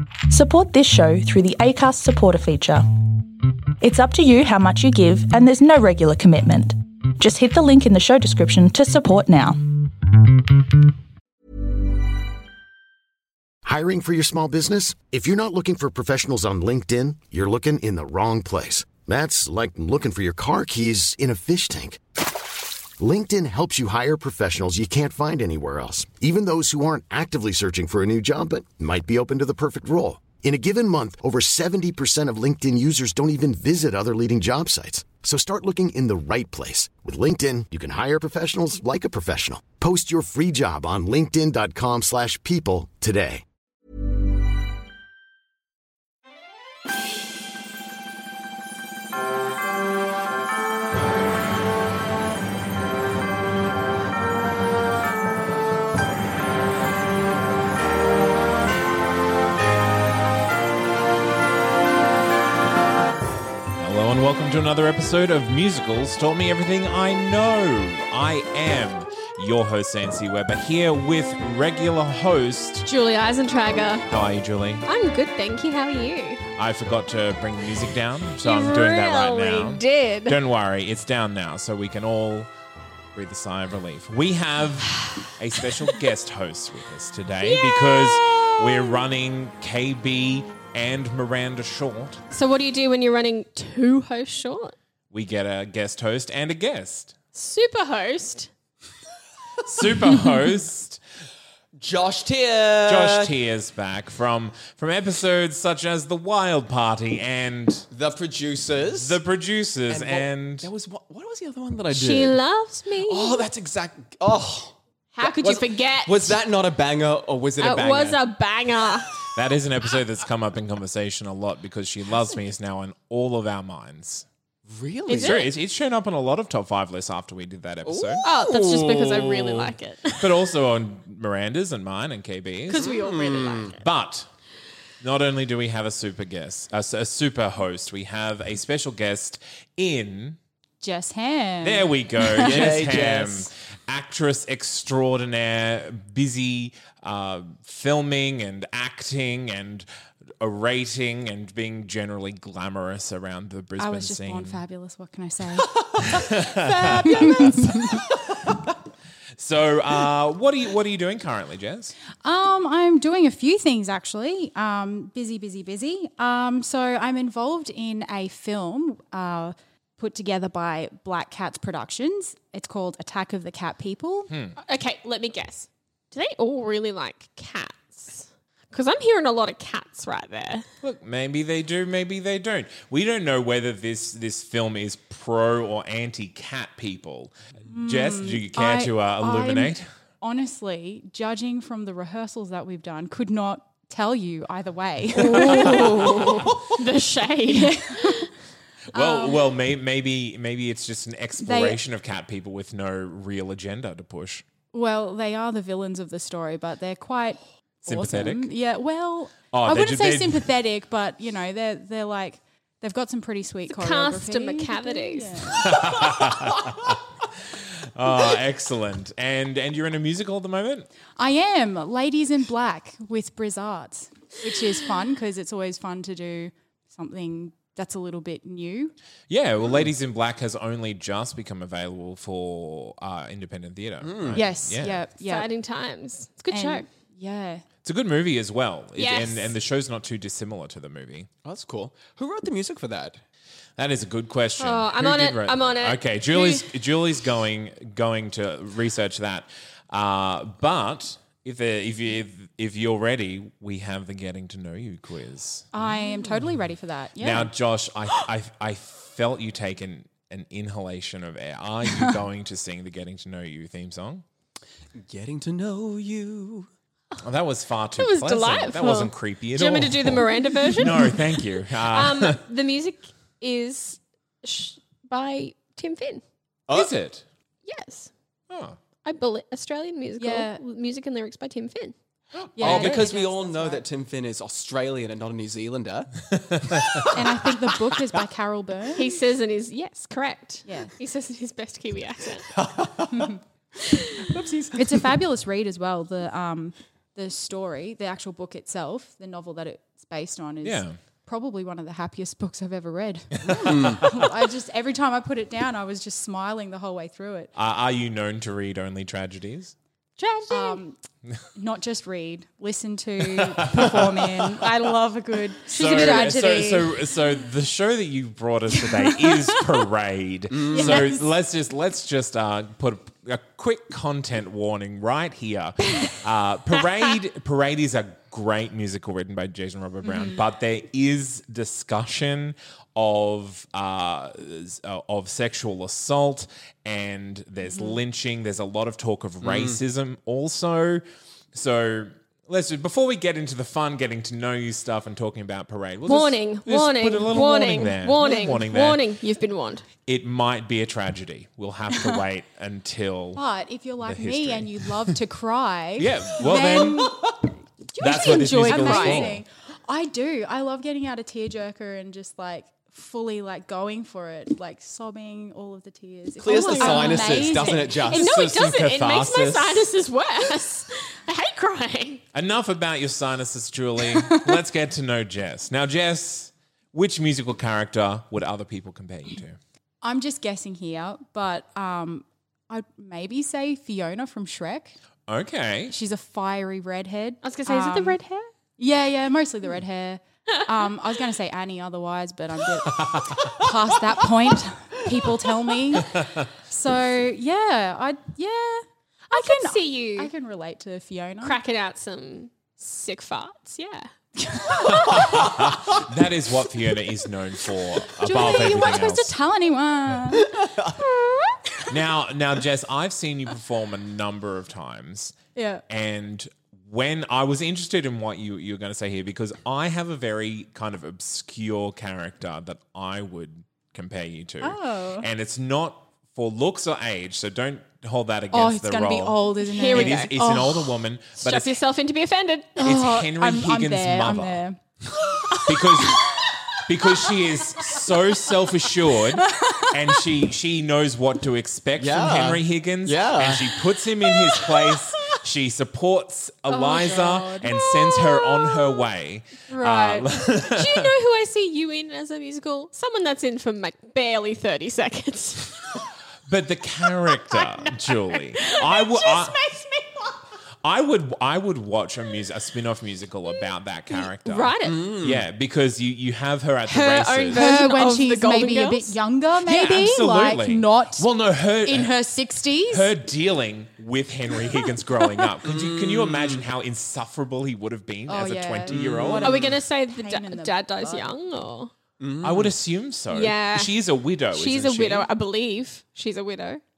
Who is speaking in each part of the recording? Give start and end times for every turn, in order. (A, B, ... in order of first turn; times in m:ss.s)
0:00.3-0:10.4 A
0:13.6-0:22.0 B
0:23.0-0:43.4 B
1:03.8-1:12.9 C
1:12.9-1:14.0 D
1:14.1-1:14.8 C
1:14.8-1:16.4 D
1:16.6-1:22.5 C
1:18.4-1:20.4 D
1:23.1-1:32.2 C
1:27.4-1:29.0 D
1:32.3-1:34.7 D
1:35.1-1:37.1 C
1:37.4-1:38.5 D
1:39.6-1:41.0 C
1:41.8-1:43.4 E
1:42.9-1:47.9 C
1:47.9-1:49.2 E
1:48.9-1:50.7 C
1:49.9-1:52.4 E
1:51.9-1:53.4 D
1:53.0-1:58.3 E
1:55.2-1:56.4 D
1:57.6-1:59.1 D
1:59.4-2:04.3 C
2:04.7-2:05.4 E
2:05.1-2:05.5 D
2:05.2-2:08.3 C
2:07.8-2:09.6 E
2:08.2-2:10.5 D
2:10.2-2:13.0 C
2:12.7-2:13.8 D
2:12.8-2:13.8 E
2:13.8-2:14.3 C
2:15.0-2:20.4 C
2:20.8-2:22.8 F
2:21.6-2:29.9 C
2:22.4-2:23.5 E
2:30.4-2:34.6 C
2:33.8-2:35.8 F
2:36.0-2:38.0 C
2:36.5-2:38.0 F
2:39.4-2:42.0 C
2:42.2-2:54.3 F
2:54.3-2:54.6 C
2:54.6-3:00.7 D
3:00.8-3:07.4 C
3:07.7-3:15.9 F
3:07.9-3:09.8 C
3:15.2-3:18.3 D
3:15.5-3:16.1 C
3:17.5-3:18.3 F
3:18.9-3:24.4 C
3:18.9-3:19.4 F
3:21.4-3:21.8 F
3:24.7-3:35.8 F
3:27.8-3:28.5 C
3:29.5-3:30.5 C
3:33.7-3:35.6 D
3:35.6-3:40.9 C
3:41.2-3:48.9 F
3:49.3-3:55.0 C
3:54.0-3:54.4 E
3:54.3-3:55.5 F
3:55.2-3:56.9 D
3:56.5-3:57.6 F
3:57.8-4:01.3 C
3:59.0-3:59.6 D
4:01.4-4:03.2 E
4:03.8-4:15.7 C
4:04.6-4:06.7 D
4:15.7-4:17.5 F
4:17.2-4:24.2 C
4:25.0-4:26.7 E
4:27.2-4:32.4 C
4:28.0-4:36.2 D
4:36.7-4:37.0 E
4:36.7-4:37.2 C
4:37.6-4:38.1 D
4:38.5-4:38.8 C
4:39.0-4:41.9 D
4:40.2-4:40.6 F
4:42.4-4:43.1 C
4:42.6-4:43.8 F
4:42.6-4:46.1 E
4:46.5-4:47.1 C
4:47.1-4:49.2 F
4:49.0-4:52.5 D
4:50.7-4:50.9 F
4:53.1-4:53.4 F
4:53.8-4:54.3 D
4:54.3-4:55.0 E
4:54.7-5:07.5 F
5:00.6-5:01.0 C
5:03.6-5:04.0 E
5:07.6-5:09.7 C
5:10.2-5:10.8 D
5:10.5-5:11.0 F
5:11.6-5:17.0 F
5:13.3-5:14.6 C
5:15.7-5:49.0 C
5:15.8-5:16.5 D
5:19.1-5:19.4 F
5:20.5-5:21.1 E
5:20.7-5:21.3 F
5:30.0-5:30.4 F
5:37.6-5:38.0 F
5:39.4-5:39.8 E
5:46.1-5:49.9 D
5:50.1-5:53.4 C
5:53.4-5:57.2 F
5:54.0-5:55.2 C
5:56.0-5:57.0 C
5:57.0-5:57.3 E
5:58.0-5:59.3 D
5:58.0-5:59.4 C
5:58.6-6:08.2 F
6:06.4-6:08.2 E
6:06.7-6:09.9 C
6:06.8-6:07.3 D
6:08.1-6:12.2 D
6:12.3-6:19.6 C
6:14.2-6:14.6 F
6:20.0-6:25.0 F
6:25.3-6:25.9 C
6:25.9-6:28.2 F
6:27.4-6:28.5 D
6:28.8-6:41.6 F
6:32.9-6:33.5 C
6:36.0-6:36.5 C
6:39.3-6:40.3 D
6:41.4-6:44.1 D
6:44.4-6:45.3 F
6:44.8-6:49.3 C
6:48.2-6:50.5 F
6:50.5-6:50.9 E
6:51.0-6:51.6 D
6:51.9-6:55.4 C
6:55.6-6:55.8 F
6:55.9-7:11.7 C
7:04.6-7:05.3 F
7:08.5-7:10.9 F
7:09.7-7:10.3 D
7:11.4-7:12.8 D
7:12.8-7:14.8 F
7:12.8-7:14.6 C
7:15.6-7:16.4 C
7:16.9-7:31.1 C
7:19.4-7:19.9 F
7:22.0-7:23.9 E
7:26.7-7:27.9 F
7:29.7-7:30.3 F
7:30.6-7:35.9 D
7:36.5-7:39.6 C
7:37.4-7:40.4 D
7:40.8-7:47.8 C
7:44.1-7:45.0 D
7:44.8-7:45.4 E
7:46.8-7:49.2 D
7:47.5-7:51.3 F
7:49.6-7:52.2 C
7:51.8-7:53.1 F
7:52.9-7:59.7 C
7:55.6-7:56.6 E
7:58.3-8:01.3 F
7:58.9-7:59.8 E
7:59.4-8:01.9 D
8:02.2-8:02.8 E
8:02.4-8:05.3 C
8:03.3-8:04.0 D
8:04.5-8:06.8 D